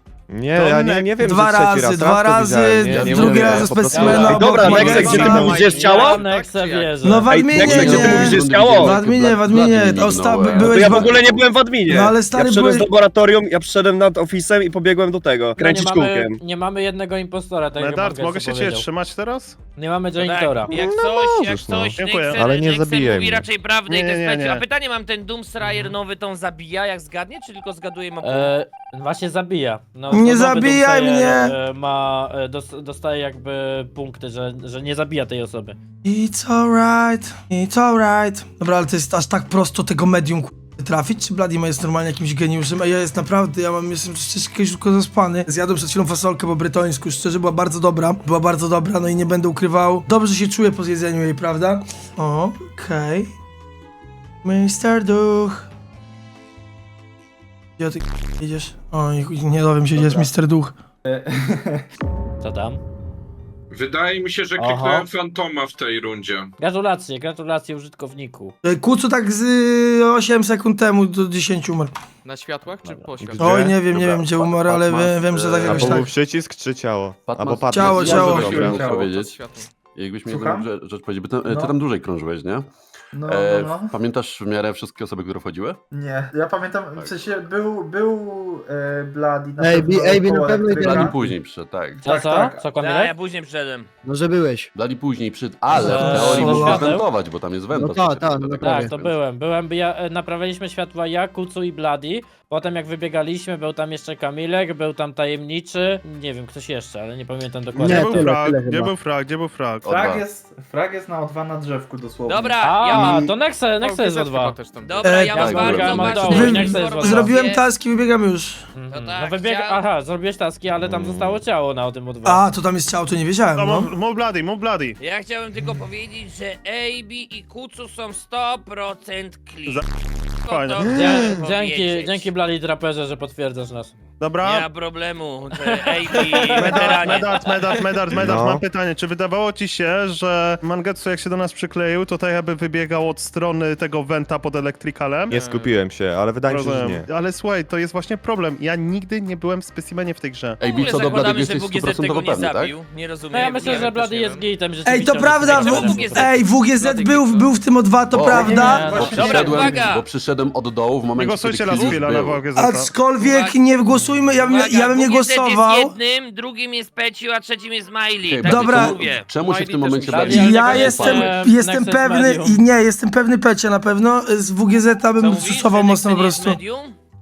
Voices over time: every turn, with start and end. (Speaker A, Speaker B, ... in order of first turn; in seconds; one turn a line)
Speaker A: 0.3-5.5
Speaker B: 0.5-1.1
Speaker C: 1.2-5.6
Speaker D: 2.9-5.0
Speaker E: 4.0-6.2
Speaker F: 4.1-7.2
Speaker G: 5.7-7.3
Speaker C: 7.0-12.9
Speaker E: 7.3-9.0
Speaker D: 7.5-11.5
Speaker E: 10.5-16.4
Speaker G: 15.6-18.9
Speaker B: 17.8-19.6
Speaker G: 19.8-20.7
Speaker H: 20.2-28.5
Speaker A: 20.7-23.5
Speaker B: 21.9-22.4
Speaker B: 23.9-24.6
Speaker G: 25.6-25.9
Speaker G: 28.2-35.8
Speaker C: 30.1-31.6
Speaker C: 36.0-53.3
Speaker C: 54.4-55.6
Speaker C: 57.8-60.8
Speaker I: 60.0-60.3
Speaker I: 61.0-61.8
Speaker G: 62.4-62.8
Speaker J: 63.7-66.5
Speaker G: 64.6-65.1
Speaker G: 66.6-68.5
Speaker C: 68.6-71.9
Speaker F: 72.2-73.7
Speaker A: 73.2-73.7
Speaker C: 73.4-76.1
Speaker D: 73.9-76.1
Speaker A: 75.6-78.8
Speaker D: 77.3-79.4
Speaker C: 77.7-78.7
Speaker I: 78.0-79.1
Speaker F: 78.3-79.7
Speaker D: 79.9-82.7
Speaker I: 80.3-80.7
Speaker I: 81.5-81.7
Speaker I: 83.1-83.9
Speaker D: 83.3-85.8
Speaker I: 85.9-91.3
Speaker D: 86.9-87.2
Speaker K: 89.6-91.1
Speaker D: 90.7-92.0
Speaker I: 92.0-92.6
Speaker G: 92.0-93.1
Speaker H: 92.8-93.9
Speaker K: 94.0-94.7
Speaker D: 94.7-99.1
Speaker G: 95.7-97.0
Speaker C: 95.7-96.9
Speaker K: 95.8-96.8
Speaker K: 97.7-98.9
Speaker G: 98.6-108.3
Speaker K: 107.8-108.9
Speaker B: 107.8-109.9
Speaker D: 109.8-110.2
Speaker I: 109.9-112.6
Speaker H: 112.2-113.3
Speaker G: 112.6-114.5
Speaker F: 113.8-115.1
Speaker H: 114.8-117.6
Speaker C: 115.0-115.4
Speaker G: 115.3-117.3
Speaker D: 115.3-116.5
Speaker C: 116.2-118.6
Speaker G: 118.8-122.4
Speaker H: 118.9-119.8
Speaker A: 120.8-121.4
Speaker C: 122.2-123.9
Speaker B: 123.5-125.0
Speaker H: 125.0-129.8
Speaker H: 130.4-132.3
Speaker B: 130.4-131.2
Speaker G: 130.9-133.9
Speaker B: 134.2-134.7
Speaker H: 134.4-137.7
Speaker G: 135.6-137.1
Speaker B: 136.5-145.4
Speaker A: 138.1-138.6
Speaker A: 145.3-147.1
Speaker F: 145.3-145.8
Speaker B: 146.5-150.6
Speaker D: 150.6-152.7
Speaker H: 150.6-154.1
Speaker G: 153.3-156.3
Speaker F: 153.5-154.4
Speaker C: 154.8-159.1
Speaker H: 155.4-156.4
Speaker F: 156.7-157.5
Speaker D: 158.1-162.4
Speaker I: 158.2-159.9
Speaker G: 158.6-159.5
Speaker H: 159.0-160.0
Speaker B: 161.2-162.9
Speaker H: 161.7-162.0
Speaker C: 162.6-165.9
Speaker H: 163.2-163.6
Speaker G: 163.9-164.4
Speaker H: 164.4-169.3
Speaker D: 168.2-171.4
Speaker C: 168.4-169.0
Speaker F: 169.4-170.7
Speaker G: 170.1-172.6
Speaker C: 170.3-176.6
Speaker H: 175.2-177.0